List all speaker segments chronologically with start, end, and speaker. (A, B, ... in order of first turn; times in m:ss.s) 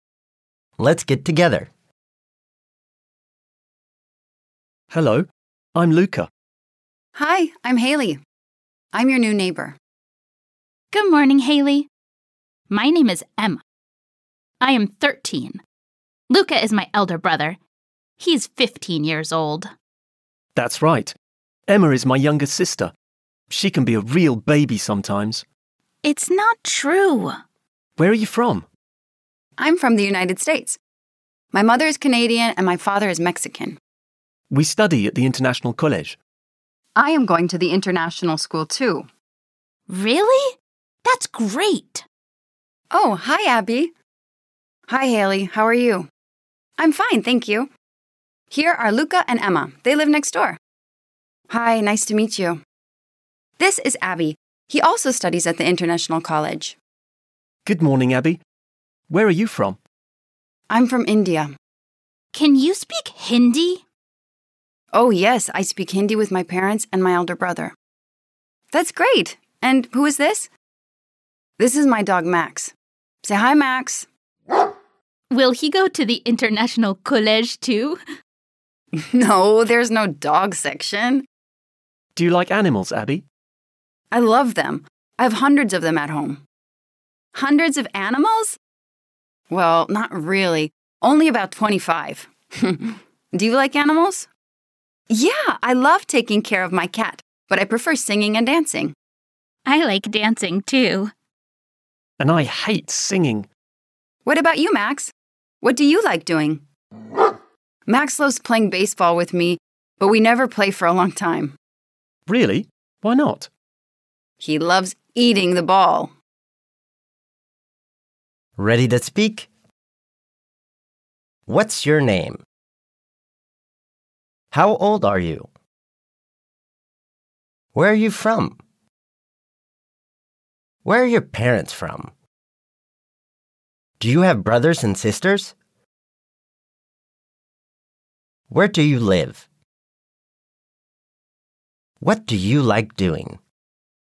0:00.8-0:01.7 A
0:04.9-0:06.3 B
0:07.2-0:08.2 C
0:08.9-0:09.8 C
0:10.9-0:11.9 D
0:12.7-0:13.6 D
0:14.6-0:15.6 D
0:16.3-0:17.6 D
0:18.2-0:19.7 D
0:20.6-0:21.2 B
0:21.7-0:22.9 B
0:23.5-0:25.5 B
0:26.0-0:27.4 D
0:28.0-0:28.7 B
0:29.6-0:30.8 C
0:31.5-0:33.8 C
0:34.5-0:36.2 B
0:37.0-0:39.1 C
0:39.9-0:42.0 D
0:42.9-0:43.9 C
0:44.9-0:46.1 C
0:46.8-0:47.7 C
0:48.5-0:50.6 C
0:51.5-0:52.6 C
0:53.6-0:56.8 C
0:57.6-0:58.4 B
0:59.1-0:59.8 B
1:00.7-1:01.5 C
1:02.3-1:03.8 D
1:04.9-1:07.7 C
1:08.7-1:10.5 C
1:11.6-1:12.7 C
1:13.2-1:14.1 C
1:15.3-1:18.0 D
1:19.0-1:21.2 C
1:22.2-1:23.2 B
1:24.1-1:26.4 C
1:27.4-1:28.6 C
1:29.5-1:34.3 C
1:35.1-1:38.9 C
1:39.6-1:41.1 D
1:42.2-1:43.5 B
1:44.2-1:46.6 C
1:47.9-1:51.5 C
1:52.3-1:53.5 B
1:54.4-1:56.1 C
1:58.6-1:59.5 A
2:01.5-2:02.4 A
2:04.5-2:05.5 A
2:07.7-2:08.6 A
2:10.8-2:12.1 A
2:14.0-2:15.5 A
2:18.5-2:19.4 A
2:22.0-2:23.4 A